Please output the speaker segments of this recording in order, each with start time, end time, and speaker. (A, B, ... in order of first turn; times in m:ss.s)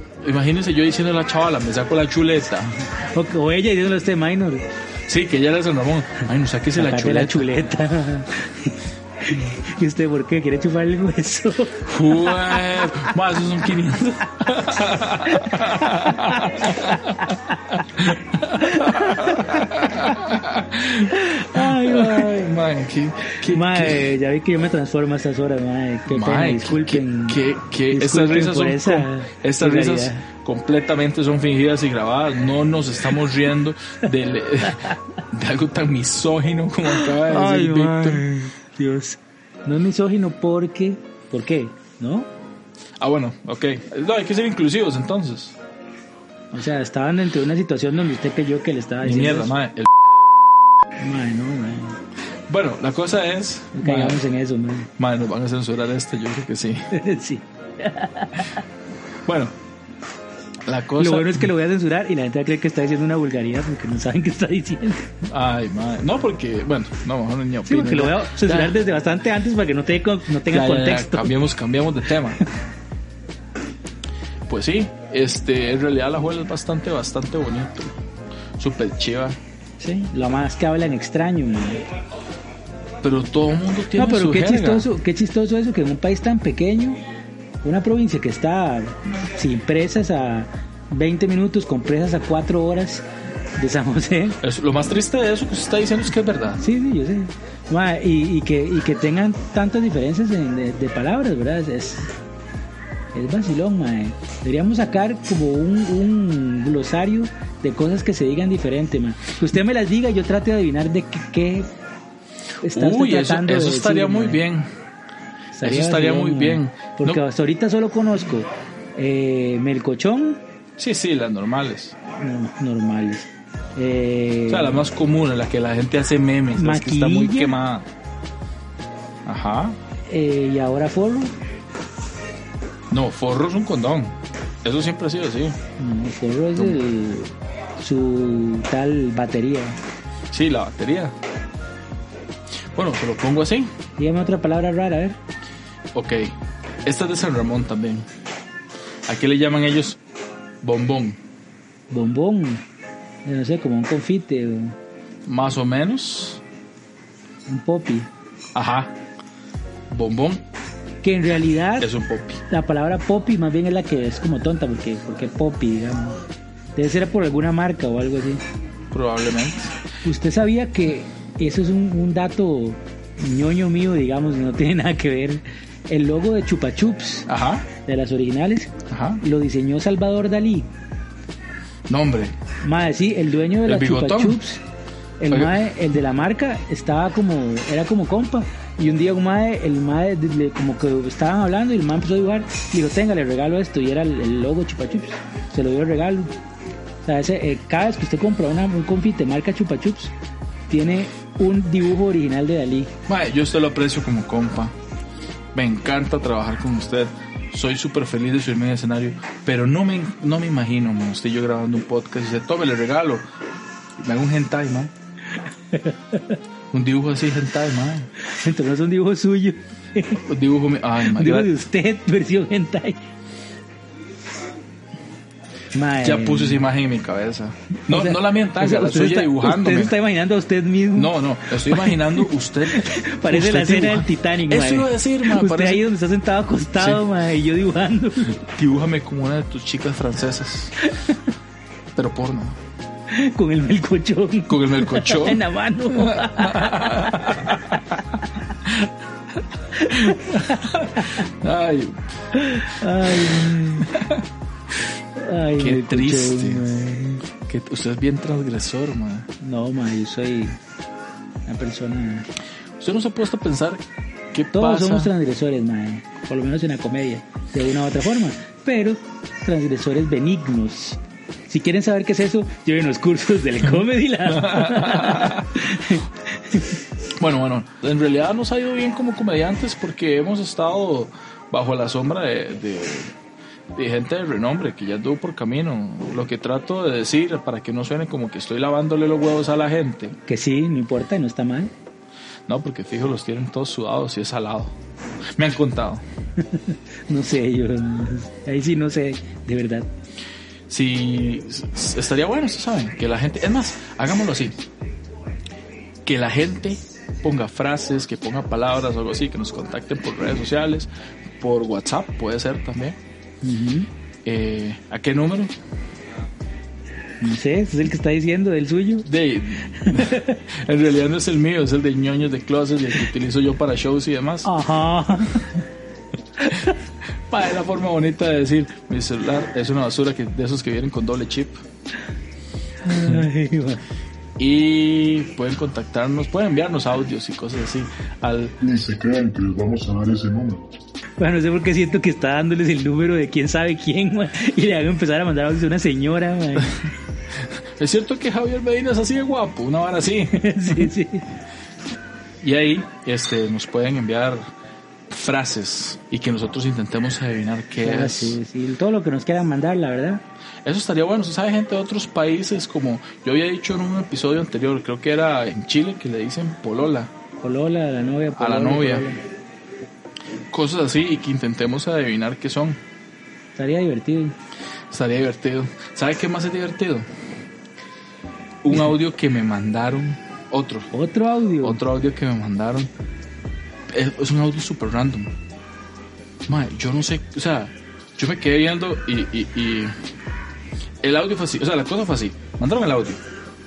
0:00.2-0:02.7 A
0:02.9-0:04.6 B
0:05.1-0:07.5 A
0:06.7-0:13.1 B
0:11.8-0:24.1 A
0:15.3-0:16.4 B
0:18.6-0:19.5 B
0:21.1-0:22.3 B
0:23.5-0:27.4 B
0:26.1-0:38.3 A
0:27.9-0:30.2 B
0:37.0-0:42.3 B
0:43.0-0:45.6 A
0:46.5-0:49.5 B
0:49.0-0:49.9 A
0:51.0-0:52.0 B
0:52.5-0:54.2 A
0:53.8-0:54.9 B
0:55.0-0:56.9 A
0:56.9-0:58.6 B
0:59.2-0:59.5 A
1:00.6-1:01.5 A
1:01.0-1:05.1 B
1:05.2-1:08.8 A
1:07.7-1:11.3 B
1:10.5-1:12.4 A
1:14.5-1:18.0 A
1:18.6-1:19.4 A
1:19.8-1:21.8 B
1:23.0-1:24.9 A
1:24.0-1:27.0 B
1:27.6-1:33.0 B
1:33.6-1:34.4 B
1:34.4-1:36.6 A
1:36.6-1:42.1 B
1:43.1-1:51.7 B
1:52.6-1:54.4 B
1:52.7-1:54.7 A
1:55.5-2:00.4 B
1:55.6-1:57.2 A
2:00.8-2:02.0 A
2:02.2-2:04.8 B
2:04.5-2:07.9 A
2:06.6-2:07.6 B
2:09.2-2:09.8 A
2:10.1-2:11.3 B
2:12.9-2:15.6 A
2:15.8-2:19.8 B
2:20.3-2:21.2 A
2:22.8-2:23.7 A
2:24.0-2:25.2 B
2:25.9-2:28.1 A
2:29.1-2:30.0 A
2:30.6-2:31.2 A
2:31.9-2:32.6 B
2:33.2-2:34.8 B
2:35.3-2:36.4 A
2:37.5-2:38.1 B
2:38.6-2:39.0 A
2:39.9-2:40.4 A
2:41.0-2:41.9 B
2:41.8-2:42.4 A
2:42.5-2:46.2 B
2:46.8-2:48.4 B
2:48.9-2:49.7 A
2:50.0-2:57.3 B
2:57.3-2:57.7 A
2:57.8-3:00.7 B
2:58.9-2:59.2 A
3:01.9-3:02.3 A
3:02.6-3:04.6 B
3:03.6-3:04.4 A
3:05.2-3:16.3 B
3:05.3-3:05.6 A
3:17.0-3:20.1 B
3:20.7-3:22.9 B
3:23.1-3:24.8 A
3:25.5-3:33.2 A
3:34.0-3:34.9 A
3:35.7-3:36.4 B
3:36.7-3:38.1 A
3:38.2-3:40.2 B
3:40.2-3:41.5 A
3:41.1-3:43.0 B
3:45.7-3:46.6 B
3:46.0-3:50.0 A
3:47.9-3:58.4 B
3:51.0-3:55.9 A
3:56.8-3:57.0 A
3:58.4-4:00.8 A
4:00.8-4:01.2 B
4:02.0-4:02.6 A
4:03.1-4:08.0 B
4:04.5-4:08.0 A
4:08.6-4:08.9 A
4:09.7-4:11.2 B
4:09.9-4:12.0 A
4:12.3-4:14.0 B
4:13.1-4:14.2 A
4:15.2-4:17.2 B
4:15.6-4:16.6 A
4:17.4-4:19.3 A
4:19.4-4:20.6 B
4:21.5-4:22.3 B
4:22.8-4:25.1 A
4:24.5-4:36.8 B
4:34.3-4:35.5 A
4:37.2-4:43.1 A
4:43.7-4:50.2 A
4:50.3-4:51.7 B
4:52.5-4:54.7 A
4:55.3-4:56.0 A
4:56.4-4:59.9 B
5:00.7-5:04.6 A
5:06.1-5:13.0 A
5:13.4-5:13.9 B
5:14.2-5:15.5 A
5:17.2-5:19.1 B
5:19.0-5:24.5 A
5:19.8-5:20.4 B
5:24.4-5:25.6 B
5:26.4-5:26.7 B
5:27.3-5:31.6 A
5:32.8-5:33.8 B
5:34.4-5:38.6 A
5:38.6-5:40.7 C
5:41.2-5:46.8 B
5:47.3-5:50.9 A
5:50.3-5:51.3 B
5:52.4-5:54.5 A
5:55.1-5:58.4 A
5:57.8-6:00.2 B
6:00.6-6:07.1 A
6:07.4-6:09.2 B
6:08.4-6:09.1 A
6:10.5-6:12.8 A
6:13.6-6:14.4 B
6:14.9-6:17.1 A
6:18.6-6:20.9 A
6:20.9-6:21.8 B
6:21.6-6:22.9 A
6:23.9-6:25.4 A
6:26.5-6:30.0 A
6:31.0-6:33.2 A